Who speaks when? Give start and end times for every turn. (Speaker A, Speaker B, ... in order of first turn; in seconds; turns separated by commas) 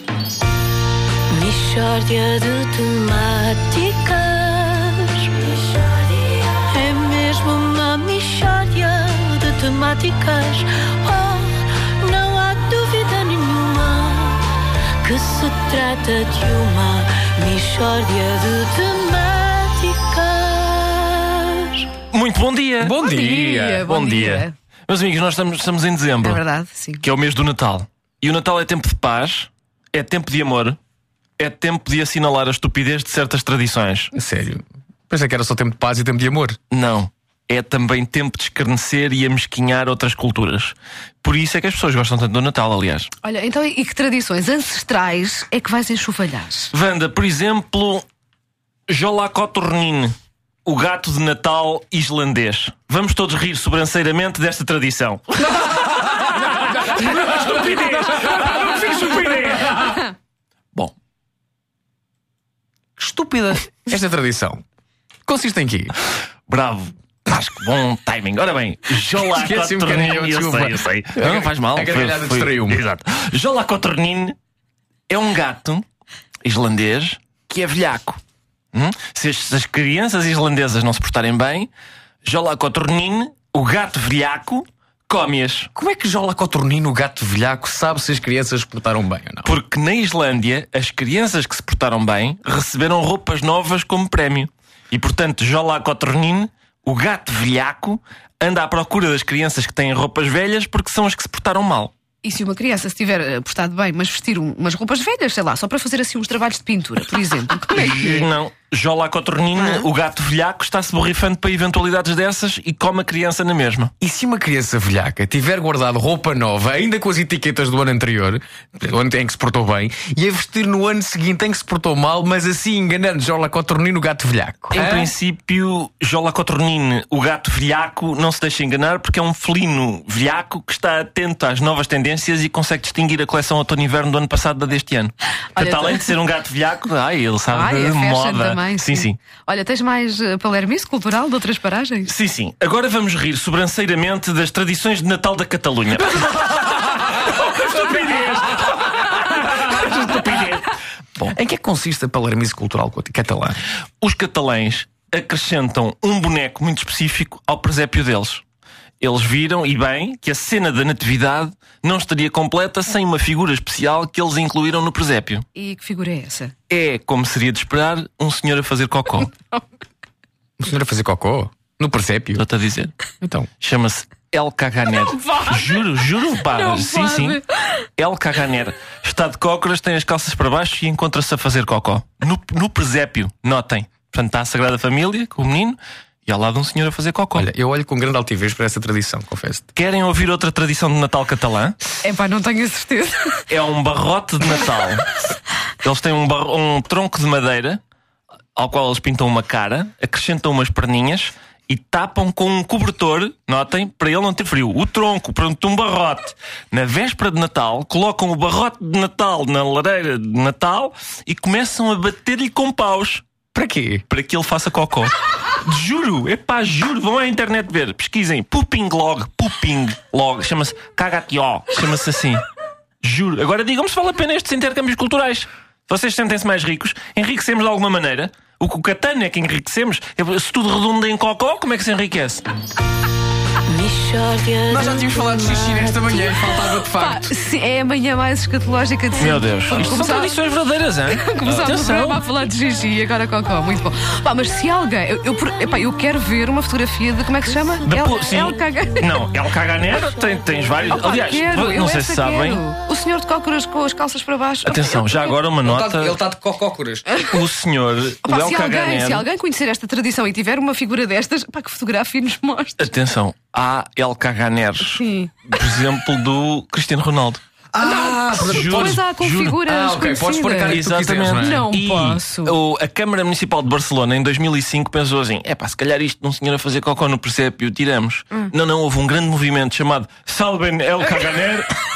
Speaker A: 1.3-21.9, Speaker B: 22.1-23.0, Speaker C: 22.8-23.9, Speaker D: 23.0-24.5, Speaker B: 23.8-26.4, Speaker D: 26.2-27.0, Speaker B: 27.0-30.8, Speaker B: 31.4-34.1, Speaker C: 34.1-36.6, Speaker B: 36.7-43.1, Speaker D: 43.2-46.7, Speaker B: 46.7-48.0, Speaker B: 48.9-50.1, Speaker B: 50.6-60.1, Speaker C: 63.0-64.6, Speaker C: 65.3-65.9, Speaker B: 66.5-74.3, Speaker C: 69.2-72.8, Speaker B: 75.1-75.8, Speaker B: 76.4-78.2, Speaker B: 78.7-81.7, Speaker B: 82.2-85.7, Speaker C: 85.7-89.5, Speaker B: 89.4-101.9, Speaker D: 102.2-108.3, Speaker B: 107.7-113.9, Speaker D: 109.6-109.9, Speaker C: 114.0-125.1, Speaker B: 124.7-139.2, Speaker D: 135.6-136.1, Speaker D: 137.5-142.1, Speaker B: 142.1-151.3, Speaker C: 151.2-153.6, Speaker B: 154.0-158.4, Speaker B: 159.0-165.4, Speaker D: 165.5-166.5, Speaker B: 166.7-169.3, Speaker C: 170.6-172.4, Speaker B: 172.4-172.9, Speaker C: 173.2-173.5, Speaker B: 173.6-177.4, Speaker D: 175.2-175.6, Speaker D: 176.4-177.8, Speaker B: 178.0-187.4, Speaker C: 187.3-189.7, Speaker B: 189.7-191.8, Speaker D: 192.0-193.4, Speaker B: 193.5-195.2, Speaker B: 195.8-197.8, Speaker B: 198.5-213.2, Speaker C: 213.5-214.0, Speaker B: 214.1-222.4, Speaker B: 223.0-232.4, Speaker A: 233.7-236.6, Speaker C: 234.7-237.3, Speaker D: 236.9-240.3, Speaker B: 239.2-242.2, Speaker D: 241.1-249.3, Speaker B: 247.8-252.6, Speaker D: 250.9-255.3, Speaker B: 254.6-256.2, Speaker C: 255.6-257.1, Speaker B: 257.2-259.2, Speaker D: 258.2-262.9, Speaker B: 262.8-267.4, Speaker D: 264.8-265.3, Speaker C: 267.7-269.0, Speaker D: 267.8-272.6, Speaker B: 268.4-269.6, Speaker C: 269.6-271.7, Speaker B: 270.7-281.7